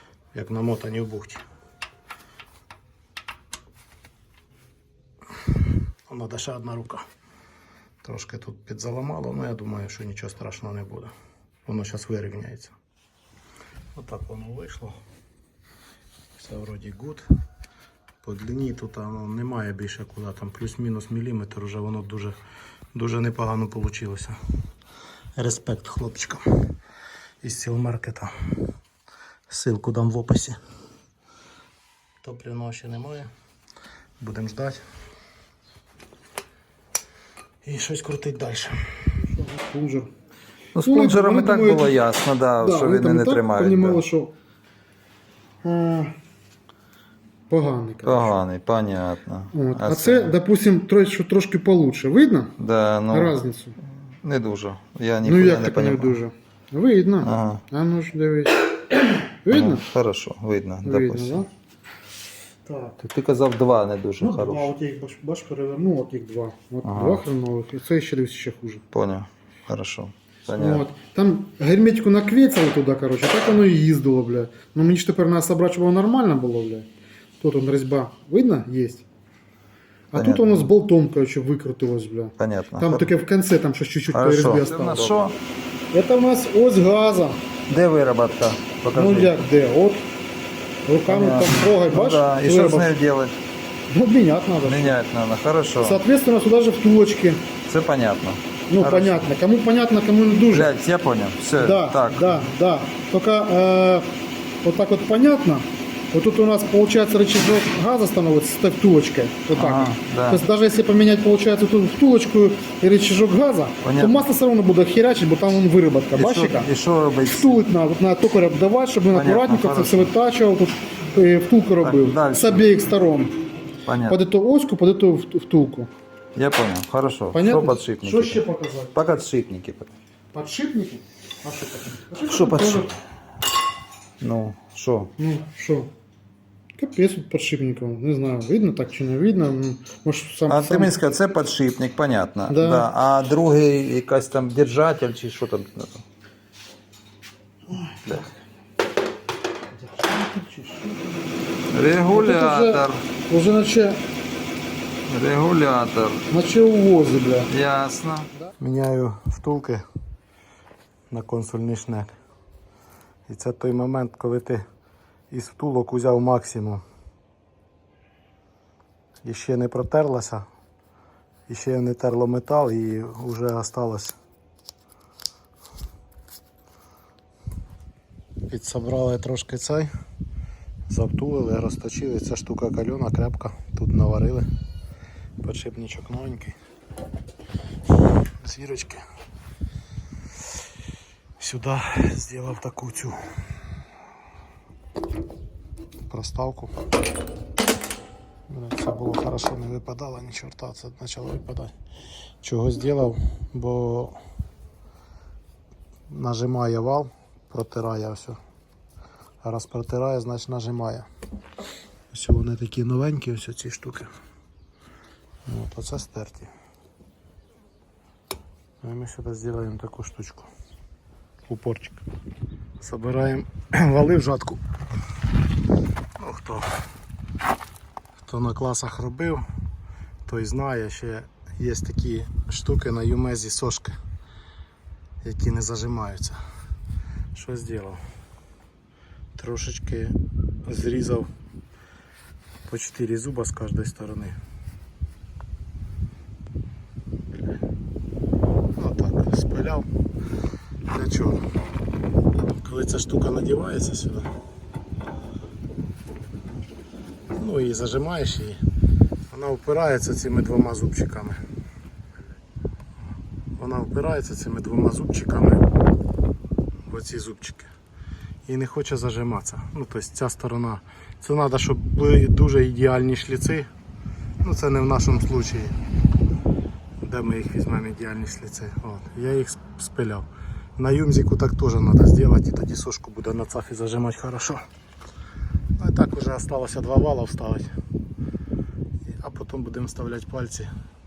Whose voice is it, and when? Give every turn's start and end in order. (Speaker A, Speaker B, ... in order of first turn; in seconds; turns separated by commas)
Speaker A: 0.3-1.4, Speaker A: 6.1-7.0, Speaker A: 8.0-11.1, Speaker A: 11.7-12.7, Speaker A: 13.9-15.0, Speaker A: 16.4-17.3, Speaker A: 18.2-22.4, Speaker A: 22.9-24.4, Speaker A: 25.4-26.4, Speaker A: 27.4-28.3, Speaker A: 29.5-30.6, Speaker A: 32.2-33.3, Speaker A: 34.2-34.8, Speaker A: 37.6-38.8, Speaker B: 39.3-40.1, Speaker C: 40.8-44.0, Speaker B: 40.8-42.0, Speaker B: 42.6-44.3, Speaker B: 45.6-46.1, Speaker B: 47.5-48.4, Speaker C: 48.0-50.4, Speaker B: 49.5-52.6, Speaker C: 52.6-53.4, Speaker B: 53.1-53.8, Speaker C: 54.2-56.2, Speaker B: 55.2-59.9, Speaker C: 57.2-57.6, Speaker C: 59.5-61.5, Speaker B: 60.8-61.5, Speaker B: 62.7-63.0, Speaker C: 63.0-64.7, Speaker B: 64.2-68.8, Speaker C: 66.8-67.2, Speaker C: 68.9-70.9, Speaker B: 70.5-76.9, Speaker B: 77.4-79.0, Speaker B: 80.1-85.3, Speaker C: 80.1-80.7, Speaker C: 82.4-83.1, Speaker C: 84.1-85.4, Speaker B: 85.9-87.4, Speaker C: 87.7-89.4, Speaker B: 88.9-90.0, Speaker B: 90.9-93.0, Speaker C: 91.0-93.4, Speaker B: 93.9-95.0, Speaker C: 94.6-96.0, Speaker B: 95.8-97.5, Speaker C: 97.7-99.3, Speaker B: 98.7-100.7, Speaker C: 100.5-102.5, Speaker B: 101.5-104.1, Speaker B: 104.6-116.7, Speaker C: 109.5-110.5, Speaker C: 113.8-114.3, Speaker C: 116.1-117.6, Speaker B: 117.2-123.4, Speaker C: 119.1-120.1, Speaker C: 121.8-122.7, Speaker C: 123.8-124.2, Speaker B: 124.1-125.9, Speaker C: 126.4-129.9, Speaker B: 127.3-129.0, Speaker B: 130.3-132.9, Speaker C: 132.2-133.0, Speaker C: 134.2-135.1, Speaker B: 135.2-135.9, Speaker B: 136.8-140.9, Speaker C: 140.5-146.1, Speaker B: 142.5-142.9, Speaker B: 147.7-148.0, Speaker C: 148.1-148.3, Speaker B: 149.8-151.2, Speaker C: 151.7-153.1, Speaker B: 152.0-154.0, Speaker C: 155.1-156.3, Speaker B: 156.3-157.5, Speaker C: 157.5-158.3, Speaker A: 158.6-159.8, Speaker A: 161.1-162.1, Speaker A: 163.3-164.6, Speaker A: 165.3-166.8, Speaker A: 169.2-170.4, Speaker A: 171.5-174.2, Speaker A: 178.5-179.9, Speaker A: 180.9-184.5, Speaker A: 185.4-186.6, Speaker A: 188.4-189.0, Speaker A: 191.4-193.2, Speaker A: 196.1-196.7, Speaker A: 198.5-201.7, Speaker A: 202.4-204.2, Speaker A: 206.1-208.4, Speaker A: 209.4-211.1, Speaker A: 212.1-214.1, Speaker A: 215.5-216.5, Speaker A: 218.8-220.5, Speaker A: 221.5-222.0, Speaker A: 222.8-224.6, Speaker A: 226.2-226.7, Speaker A: 228.2-229.4, Speaker A: 230.3-234.0, Speaker A: 235.2-236.4, Speaker A: 237.3-238.0, Speaker A: 239.4-241.3, Speaker A: 242.7-244.3, Speaker A: 248.8-249.9, Speaker A: 250.9-251.5, Speaker A: 252.5-254.3, Speaker A: 257.4-258.6, Speaker A: 259.3-261.4, Speaker A: 263.6-265.6, Speaker A: 266.9-267.7, Speaker A: 268.5-273.7, Speaker A: 274.4-275.8, Speaker A: 277.0-284.6, Speaker A: 285.8-287.7, Speaker A: 289.1-290.7